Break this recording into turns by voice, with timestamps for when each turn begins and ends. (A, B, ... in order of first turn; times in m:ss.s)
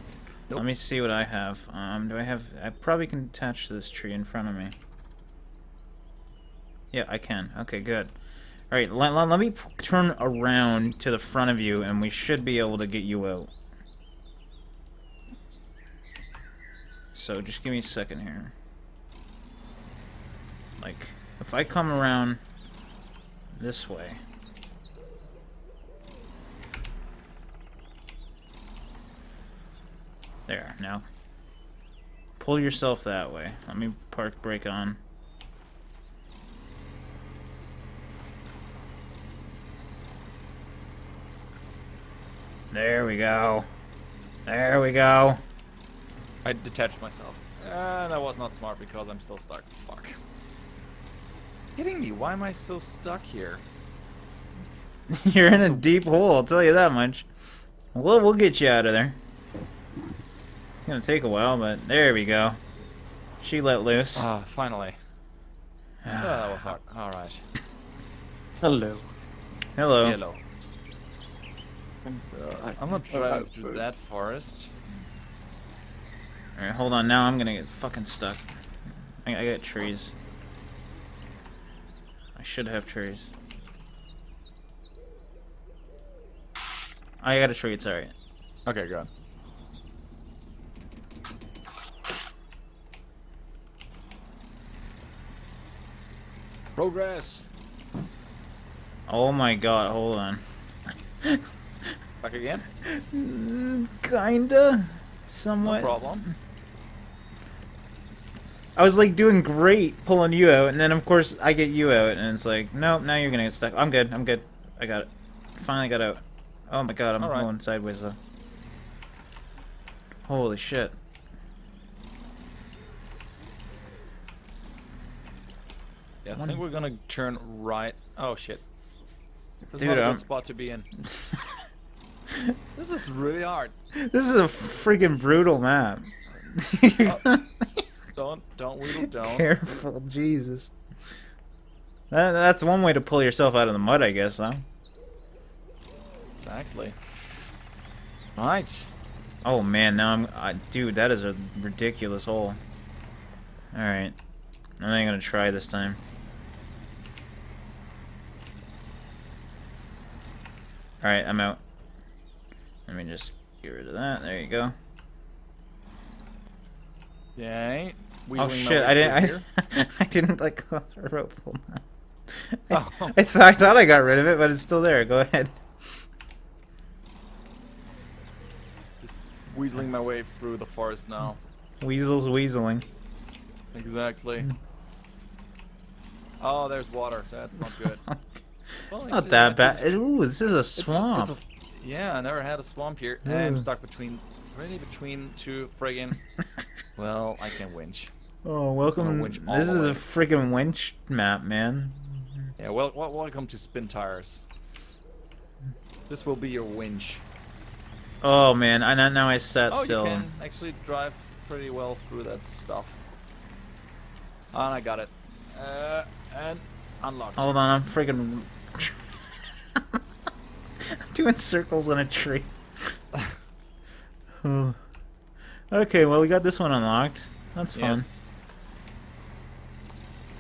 0:00.5-0:04.8 A
0:06.9-0:08.2 A
0:08.7-0:13.5 A
0:17.2-0:18.5 A
0:20.8-0:22.4 A
0:23.6-0:24.2 A
0:30.5-0:31.0 A
0:32.4-0:35.0 A
0:42.7-0:43.6 A
0:44.5-0:45.4 A
0:46.4-0:50.2 B
0:51.8-0:53.6 B
0:55.1-0:57.3 A
0:57.9-0:59.2 A
1:00.8-1:02.6 A
1:03.4-1:04.3 A
1:04.2-1:05.0 B
1:06.0-1:06.8 A
1:06.2-1:07.4 B
1:08.6-1:09.1 C
1:09.8-1:10.2 A
1:10.0-1:10.4 B
1:12.0-1:13.8 C
1:12.3-1:14.7 B
1:16.6-1:18.5 A
1:19.2-1:20.2 A
1:22.4-1:23.3 A
1:27.2-1:28.1 A
1:28.7-1:29.1 B
1:36.8-1:37.5 B
1:39.1-1:40.4 A
1:42.2-1:42.6 B
1:42.8-1:46.3 A
1:45.6-1:46.3 B
1:48.8-1:58.2 A
1:57.2-1:57.5 B
2:00.3-2:01.0 A
2:06.2-2:08.6 B
2:06.4-2:06.6 A
2:09.7-2:10.9 B
2:09.8-2:10.2 A
2:11.1-2:11.6 A
2:12.8-2:13.8 B
2:14.0-2:17.8 A
2:18.2-2:19.5 B
2:18.8-2:20.7 A
2:22.1-2:24.6 A
2:26.4-2:27.5 B
2:28.4-2:28.9 B
2:29.4-2:32.6 A
2:33.7-2:34.1 A
2:34.8-2:36.0 A
2:41.0-2:41.6 A
2:42.9-2:44.7 A
2:47.4-2:49.4 B
2:48.4-2:51.8 A
2:52.5-2:55.6 A
2:52.7-2:53.2 B
2:59.0-3:01.4 B
3:01.8-3:02.8 A
3:03.7-3:04.5 B
3:06.4-3:08.0 B
3:07.6-3:11.4 A
3:08.9-3:10.0 B
3:10.8-3:16.2 B
3:13.2-3:13.7 A
3:17.0-3:18.1 B
3:18.4-3:22.5 A
3:18.8-3:20.0 B
3:22.6-3:24.5 B
3:26.1-3:27.2 B
3:28.2-3:30.3 A
3:29.7-3:33.0 B
3:34.5-3:37.6 B
3:37.4-3:40.0 A
3:40.9-3:42.5 A
3:44.4-3:44.8 A
3:45.7-3:48.1 A
3:47.7-3:48.2 B